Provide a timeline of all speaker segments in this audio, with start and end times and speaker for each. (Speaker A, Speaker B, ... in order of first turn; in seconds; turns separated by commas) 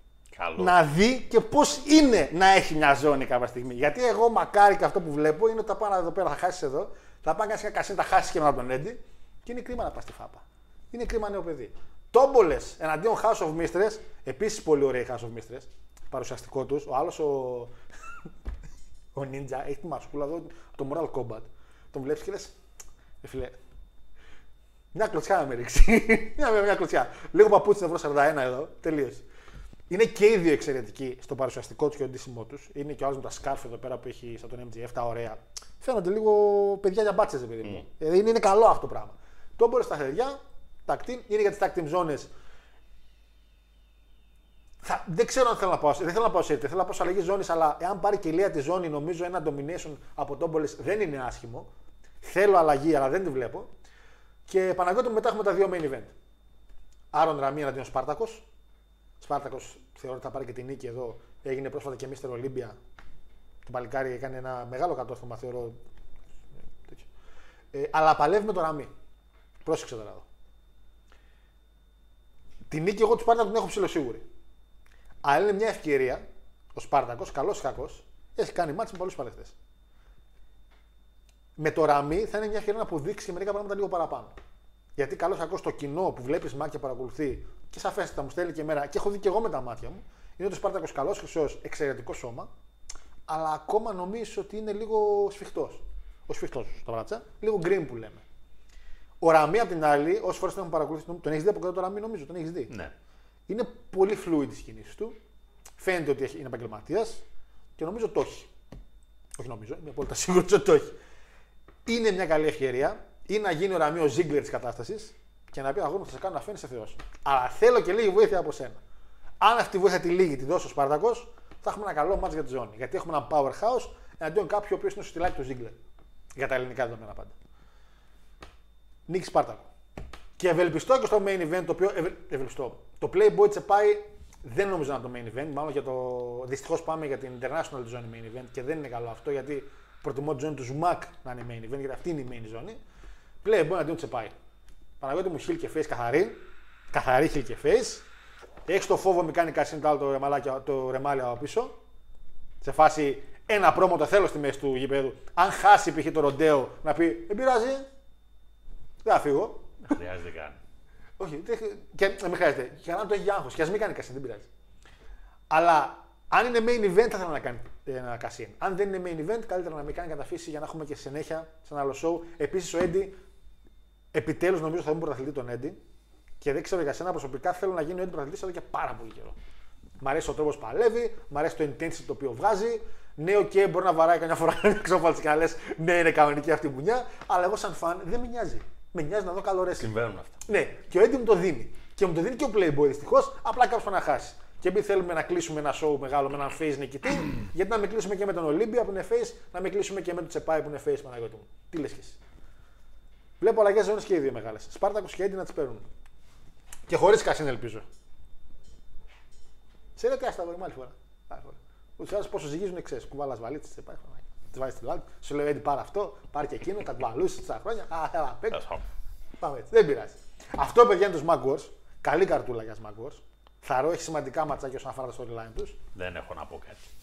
Speaker A: 0.3-0.8, Speaker B: 0.6-17.7, Speaker B: 19.1-22.5, Speaker B: 23.2-23.6, Speaker B: 24.9-29.2, Speaker B: 29.9-42.3, Speaker B: 44.8-51.7, Speaker B: 52.2-53.7, Speaker B: 54.5-56.1, Speaker B: 57.1-58.4, Speaker B: 59.2-62.8, Speaker B: 63.6-65.8, Speaker B: 67.7-68.9, Speaker B: 69.6-70.2, Speaker B: 72.7-74.2, Speaker B: 75.2-76.2, Speaker B: 76.7-79.5, Speaker B: 81.6-84.3, Speaker B: 85.0-92.5, Speaker B: 93.3-98.2, Speaker B: 99.2-102.7, Speaker B: 103.5-105.2, Speaker B: 105.8-107.2, Speaker B: 107.8-108.5, Speaker B: 109.4-110.9, Speaker B: 111.8-118.8, Speaker B: 119.4-125.8, Speaker B: 126.3-127.3, Speaker B: 129.1-129.6, Speaker B: 130.4-142.8, Speaker B: 143.4-144.3, Speaker B: 145.0-148.0, Speaker B: 148.7-151.8, Speaker B: 152.6-157.8, Speaker B: 159.0-159.7, Speaker A: 159.9-160.6, Speaker B: 161.2-164.5, Speaker B: 165.5-173.2, Speaker B: 174.1-175.8, Speaker B: 176.4-179.3, Speaker B: 180.0-189.9, Speaker A: 189.8-190.4, Speaker B: 190.5-202.2, Speaker B: 203.4-205.8, Speaker B: 206.9-207.8, Speaker B: 210.0-218.6, Speaker A: 218.5-218.8, Speaker B: 219.4-225.8, Speaker A: 225.9-226.8